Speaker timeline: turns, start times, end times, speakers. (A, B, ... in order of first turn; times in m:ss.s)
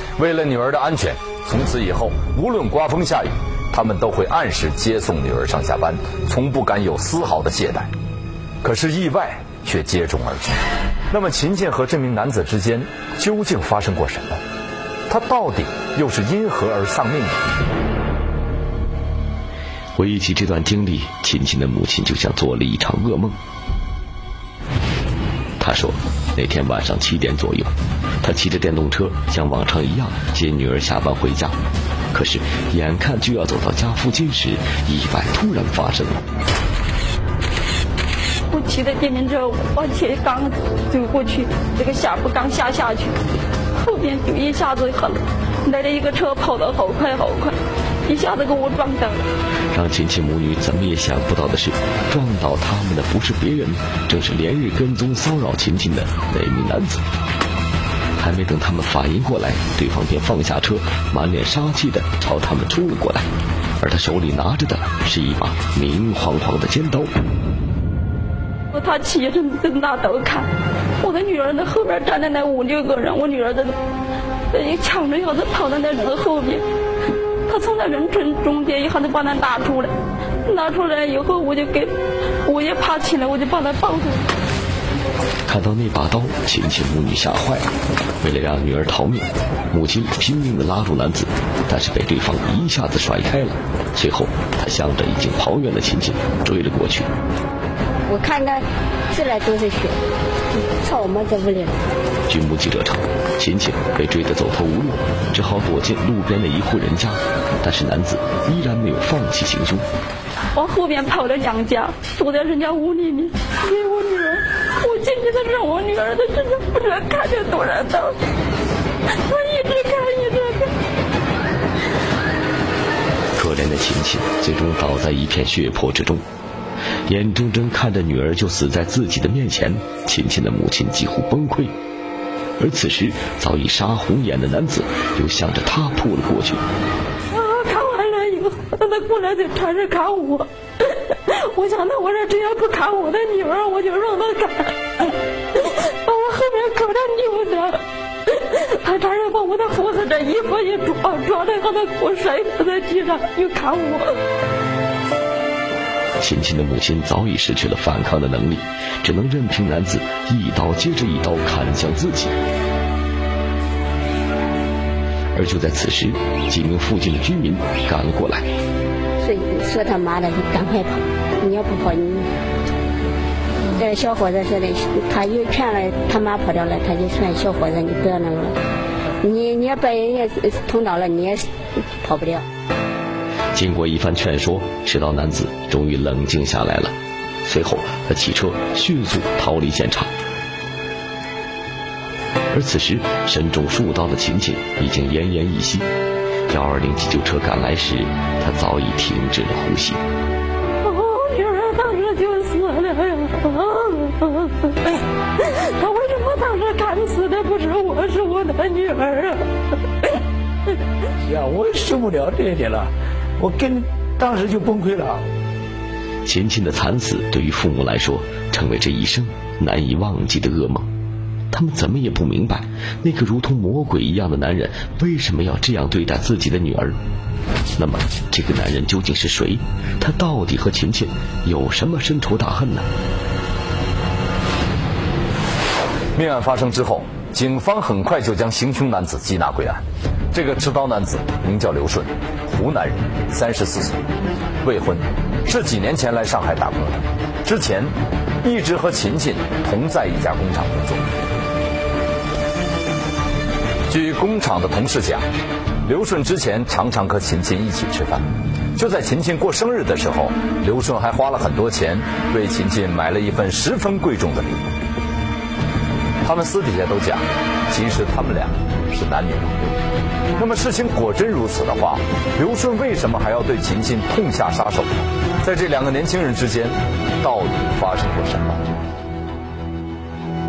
0:00.2-0:07.9 A
0:08.6-0:10.6 A
0:11.1-0:14.4 A
0:15.1-0:17.4 A
0:20.0-0:23.4 B
0:25.6-0:27.7 B
0:28.2-0:31.6 B
0:32.1-0:36.2 B
0:38.5-0:43.1 C
0:43.8-0:47.5 C
0:48.1-0:49.2 C
0:49.7-0:57.0 B
0:58.2-1:03.3 B
1:03.8-1:07.1 B
1:08.7-1:10.5 C
1:11.0-1:13.7 C
1:14.5-1:16.6 C
1:17.5-1:19.9 C
1:20.5-1:21.9 C
1:22.5-1:24.2 C
1:25.5-1:27.7 B
1:28.2-1:37.1 B
1:38.1-1:40.0 D
1:40.6-1:41.8 D
1:42.3-1:49.8 B
1:50.6-1:58.1 C
1:59.3-2:00.7 C
2:03.4-2:06.2 B
2:07.0-2:11.7 B
2:12.6-2:16.6 B
2:17.3-2:20.4 C
2:21.6-2:24.7 C
2:26.1-2:27.8 C
2:28.8-2:34.0 C
2:36.2-2:42.3 B
2:45.3-2:48.5 B
2:49.2-2:52.3 D
2:53.7-2:58.6 D
2:59.2-3:02.4 D
3:03.5-3:10.1 B
3:12.5-3:15.9 B
3:16.5-3:20.0 B
3:20.8-3:25.0 C
3:25.8-3:29.4 C
3:31.2-3:35.2 E
3:36.2-3:40.9 B
3:41.5-3:47.0 B
3:47.8-3:52.9 B
3:56.2-3:59.8 A
4:00.3-4:04.0 A
4:04.6-4:11.0 A
4:13.9-4:15.2 A
4:15.8-4:18.2 A
4:18.8-4:24.6 A
4:26.2-4:29.7 A
4:30.4-4:38.6 A